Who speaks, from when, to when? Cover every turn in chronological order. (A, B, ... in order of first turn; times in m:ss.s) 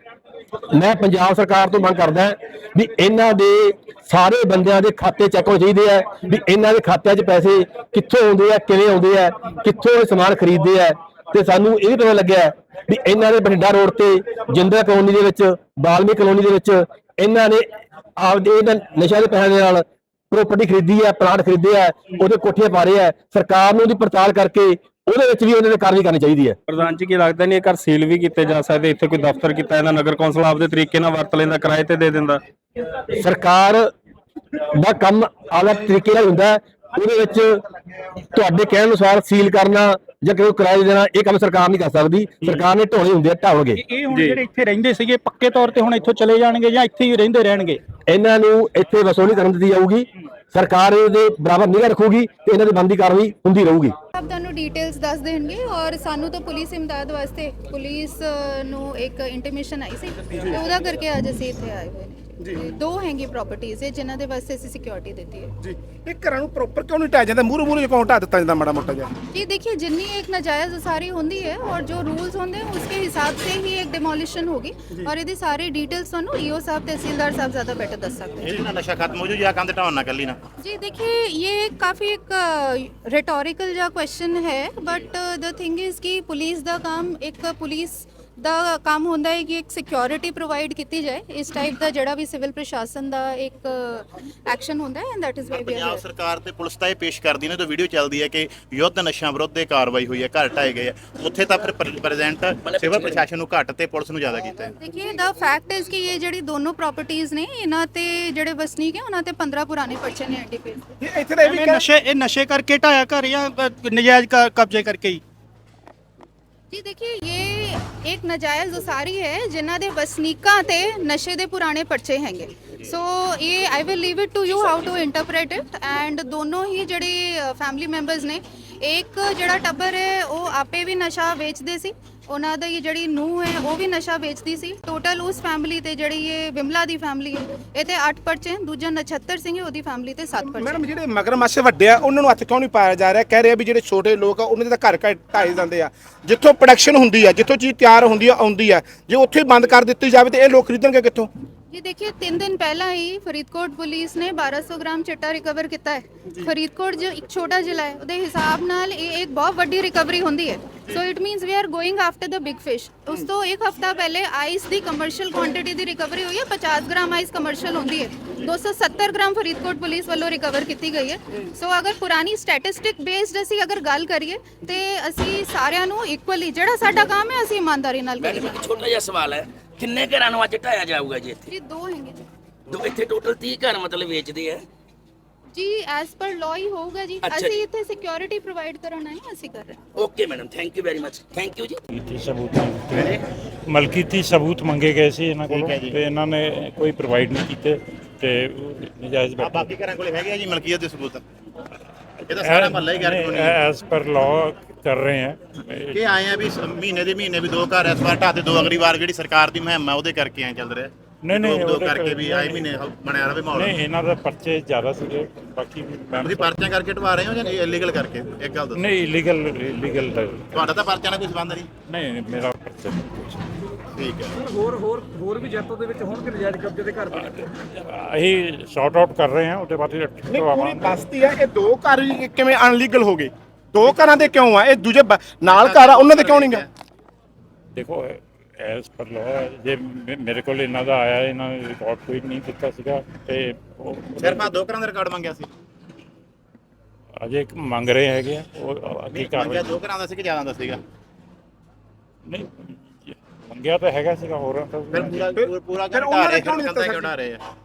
0:00.7-0:17.7 A
0:18.2-0:26.6 A
0:26.7-0:32.4 B
0:33.2-0:33.9 A
0:34.8-0:37.6 A
0:38.3-0:43.8 A
0:43.8-0:47.8 C
0:44.1-0:44.4 B
0:48.1-0:54.0 A
0:54.2-1:05.5 D
1:00.3-1:00.6 E
1:05.6-1:09.1 E
1:09.3-1:18.5 D
1:18.4-1:20.4 F
1:20.6-1:36.0 D
1:35.5-1:44.7 F
1:42.7-1:43.3 G
1:44.8-1:50.8 D
1:51.0-1:51.9 E
1:51.4-1:55.2 C
1:56.7-2:20.8 D
2:20.5-2:31.3 E
2:31.7-2:58.6 D
2:58.2-3:01.5 G
3:01.5-3:02.2 D
3:02.7-3:04.6 G
3:05.5-3:09.8 D
3:07.2-3:07.6 G
3:10.0-3:11.8 G
3:12.0-3:13.2 H
3:12.9-3:13.2 F
3:13.7-3:19.7 H
3:15.4-3:16.0 F
3:19.4-3:21.2 F
3:22.3-3:23.6 F
3:22.3-3:26.1 H
3:25.9-3:33.7 F
3:31.2-3:32.7 H
3:33.5-3:36.5 H
3:36.2-3:38.9 F
3:38.8-3:40.7 H
3:40.5-3:41.7 F
3:41.9-3:43.4 H
3:44.0-3:44.4 F
3:44.5-3:47.2 I
3:47.1-3:51.0 H
3:50.3-3:56.6 E
3:55.4-3:56.7 F
3:57.8-4:04.6 H
4:04.2-4:05.5 F
4:07.2-4:09.8 H
4:09.1-4:10.8 F
4:12.3-4:15.4 H
4:14.9-4:17.4 F
4:15.4-4:17.1 E